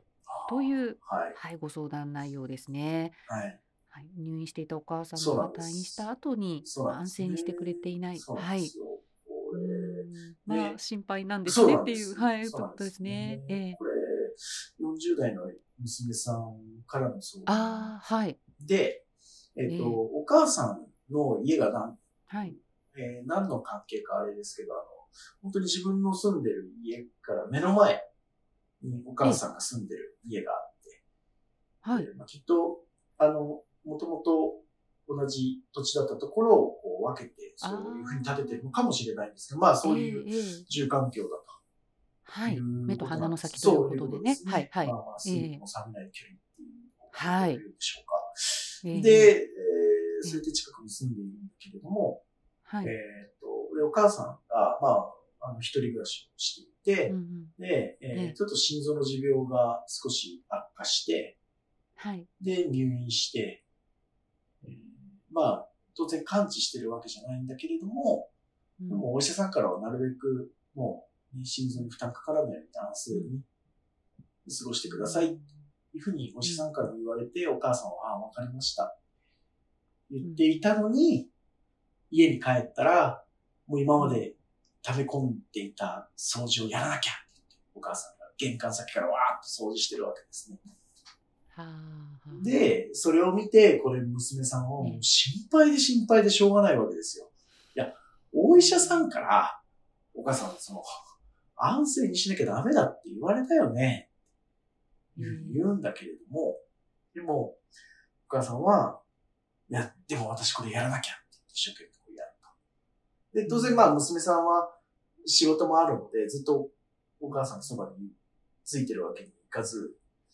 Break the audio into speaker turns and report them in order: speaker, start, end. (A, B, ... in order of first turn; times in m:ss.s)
0:00.3-0:01.4 A
0:00.5-0:03.2 B
0:03.3-0:03.6 A
0:03.9-0:08.7 B
0:05.1-0:06.0 A
0:06.6-0:10.8 A
0:09.5-0:13.8 B
0:11.4-0:17.9 A
0:17.5-0:18.4 B
0:18.6-0:19.0 A
0:19.6-0:28.0 A
0:19.7-0:20.0 B
0:22.3-0:22.6 B
0:28.8-0:31.0 A
0:31.8-0:32.1 B
0:31.9-0:41.6 A
0:37.6-0:38.6 B
0:39.8-0:40.7 B
0:42.2-0:45.6 B
0:42.4-0:52.2 A
0:47.1-0:47.6 B
0:48.8-0:49.3 B
0:52.6-0:52.9 B
0:52.8-1:01.4 A
0:57.1-0:57.5 B
1:02.0-1:02.3 B
1:02.4-1:03.6 A
1:04.6-1:08.3 A
1:08.8-1:09.1 B
1:08.9-1:13.4 A
1:14.4-1:15.3 A
1:14.8-1:15.6 B
1:15.9-1:18.9 A
1:16.4-1:16.9 B
1:20.1-1:21.3 A
1:20.2-1:20.6 B
1:22.1-1:30.6 A
1:24.0-1:24.2 B
1:31.5-1:32.6 B
1:32.3-1:39.6 A
1:34.8-1:35.0 B
1:38.5-1:39.1 B
1:40.1-1:40.9 A
1:41.6-1:44.1 A
1:45.1-1:45.6 B
1:45.2-1:46.6 A
1:47.1-1:47.6 A
1:48.3-1:49.0 A
1:49.7-1:52.5 A
1:53.3-2:00.0 A
1:53.4-1:53.9 B
1:57.4-1:57.8 B